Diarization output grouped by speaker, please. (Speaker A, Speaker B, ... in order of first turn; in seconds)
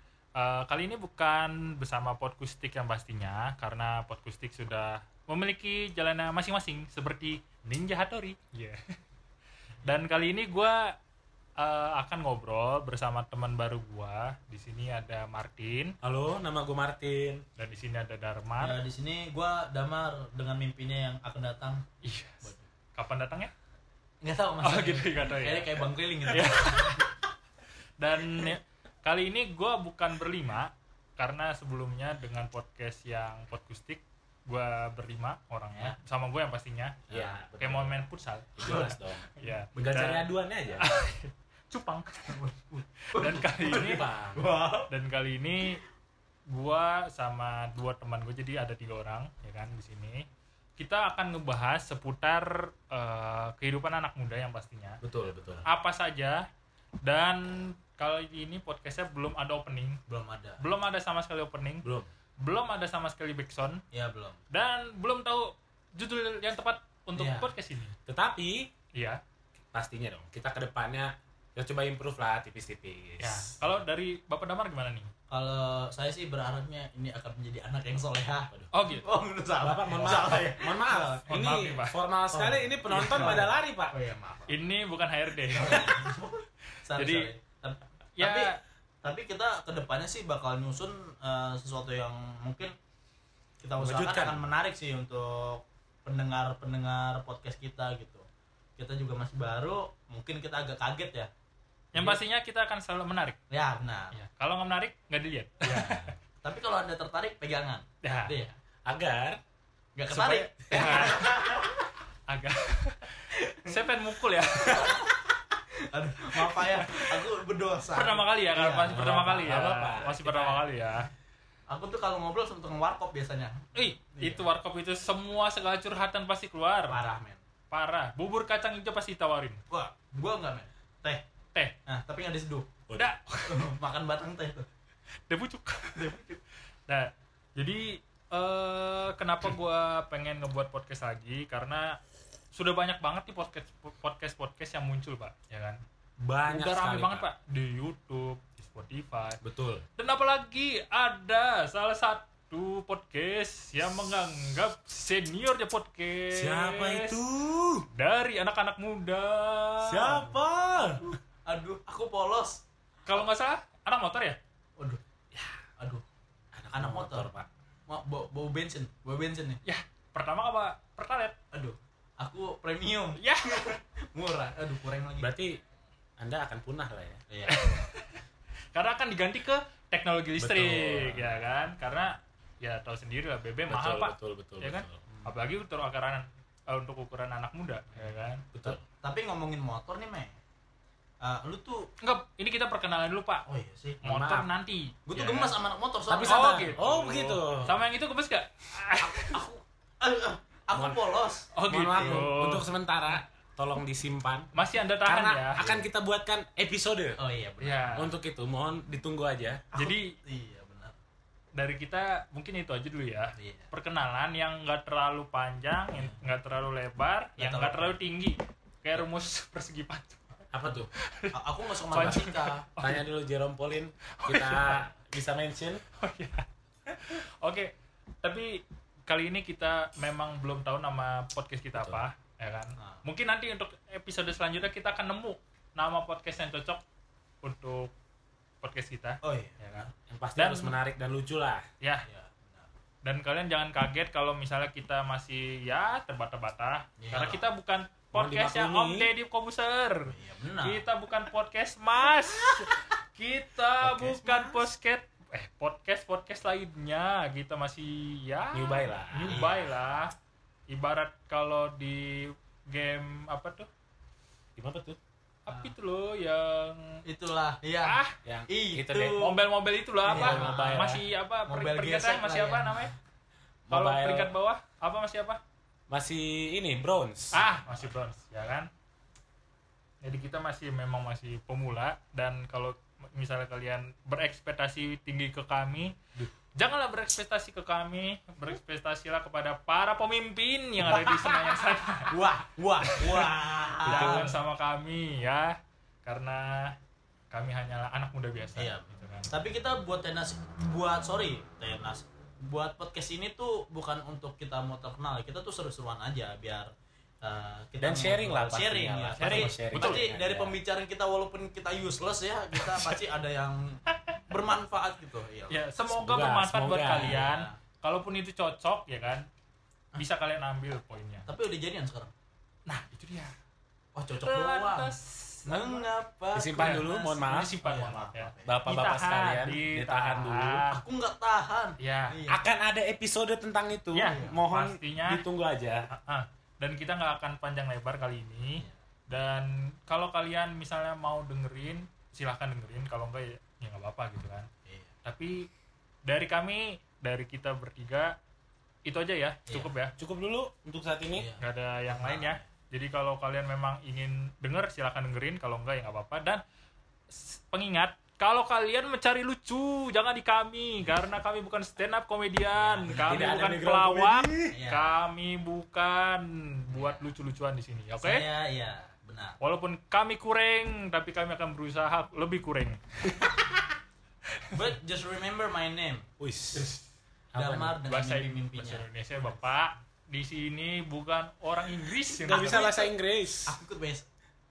Speaker A: 0.4-8.8, 9.8-10.9, 11.6-16.0, 17.6-18.8, 22.0-23.5, 24.6-25.8, 26.3-27.0, 28.0-42.4, 43.1-44.1, 44.9-45.8, 46.5-50.3, 50.8-55.0, 55.6-56.5, 57.0-60.0, 60.6-61.9, 62.4-63.8, 64.5-67.9, 69.0-69.2, 73.2-75.1, 78.7-79.1, 81.3-82.0, 83.2-83.4, 84.5-86.0, 87.0-87.3, 88.2-88.6, 101.9-103.4, 104.1-106.2, 108.0-108.3, 110.1-111.3, 112.3-115.0, 116.4-117.1, 117.9-121.1, 123.8-127.0, 127.7-129.6, 132.9-133.7, 135.3-136.2, 136.9-142.0, 142.5-145.8, 146.5-149.4, 150.0-157.2, 157.9-160.4, 163.1-164.4, 169.7-171.4, 173.2-173.7, 177.5-178.2, 178.7-188.5, 192.0-193.4, 194.0-195.5, 196.3-199.4, 201.5-202.7, 204.5-205.8, 207.6-208.1, 209.8-210.1, 211.6-220.2, 221.0-221.4, 221.9-223.0, 224.2-224.9, 226.0-236.8, 237.4-237.9, 238.6-240.8, 243.0-260.1, 260.7-263.7, 265.5-267.0, 267.8-268.1, 269.2-272.9, 273.7-275.4, 277.3-278.7, 280.0-285.9, 286.6-292.2, 293.9-296.8, 297.3-299.3, 309.2-310.0, 315.5-319.3, 320.0-321.3, 322.7-323.3, 324.2-325.9, 326.6-330.8, 331.8-332.2, 333.9-335.2, 335.9-344.5, 345.1-345.5, 346.1-348.1, 348.9-349.9, 351.4-356.4, 357.1-368.2, 369.4-373.5, 377.9-382.7
Speaker B: 16.0-17.4, 37.1-38.0, 38.6-39.2, 39.8-40.9, 43.7-44.4, 55.0-55.6, 68.1-68.7, 69.7-73.6, 79.6-83.9, 93.8-94.4, 108.9-109.4, 118.8-120.7, 146.2-147.3, 149.4-149.8, 156.3-157.9, 159.8-161.1, 166.5-167.5, 175.2-175.6, 176.2-177.2, 180.4-181.4, 183.7-185.2, 188.5-188.8, 194.0-194.5, 196.1-197.8, 200.7-201.0, 201.7-204.5, 205.1-207.2, 207.9-209.6, 220.5-220.9, 221.9-225.8, 231.8-232.0, 240.1-241.6, 248.1-249.1, 253.8-254.6, 258.5-259.4, 264.6-265.0, 268.2-269.2, 270.1-271.0, 273.7-274.3, 275.9-277.4, 293.9-294.4, 307.8-310.6, 315.9-317.2, 326.3-327.6, 328.5-330.6, 332.3-335.9, 350.0-351.3, 362.9-364.6, 376.2-376.7, 377.3-377.8, 382.3-383.6
Speaker C: 18.6-21.8, 24.2-27.1, 38.6-39.0, 42.3-44.9, 55.4-55.6, 60.1-60.6, 63.9-64.4, 67.2-67.5, 75.3-81.3, 82.3-84.6, 85.4-88.5, 89.0-92.7, 93.6-98.2, 98.8-101.3, 102.0-102.2, 103.5-104.2, 106.4-108.5, 110.0-111.8, 113.3-113.8, 114.5-115.4, 115.9-119.0, 121.7-123.6, 124.2-124.4, 126.9-127.4, 129.7-131.2, 131.9-132.7, 133.5-134.7, 135.9-136.4, 160.9-162.6, 166.7-167.3, 167.9-169.6, 171.5-175.3, 177.3-177.9, 188.7-190.4, 191.2-191.9, 193.5-194.0, 195.1-196.7, 199.0-202.3, 207.2-208.0, 209.7-210.9, 213.4-213.7, 217.4-218.0, 221.3-222.7, 232.8-233.0, 239.2-239.9, 242.1-242.7, 247.0-247.5, 250.1-250.8, 259.2-259.8, 267.1-269.4, 270.0-272.9, 292.1-294.3, 298.6-306.7, 307.2-315.6, 316.9-317.5, 321.3-322.1, 323.9-324.9, 325.5-328.6, 330.7-332.4, 334.0-334.4, 349.5-349.7, 351.1-352.4, 362.6-363.5, 364.5-365.0, 366.7-367.1, 368.0-369.4, 374.5-376.1, 377.4-379.4, 382.2-382.9, 383.5-384.1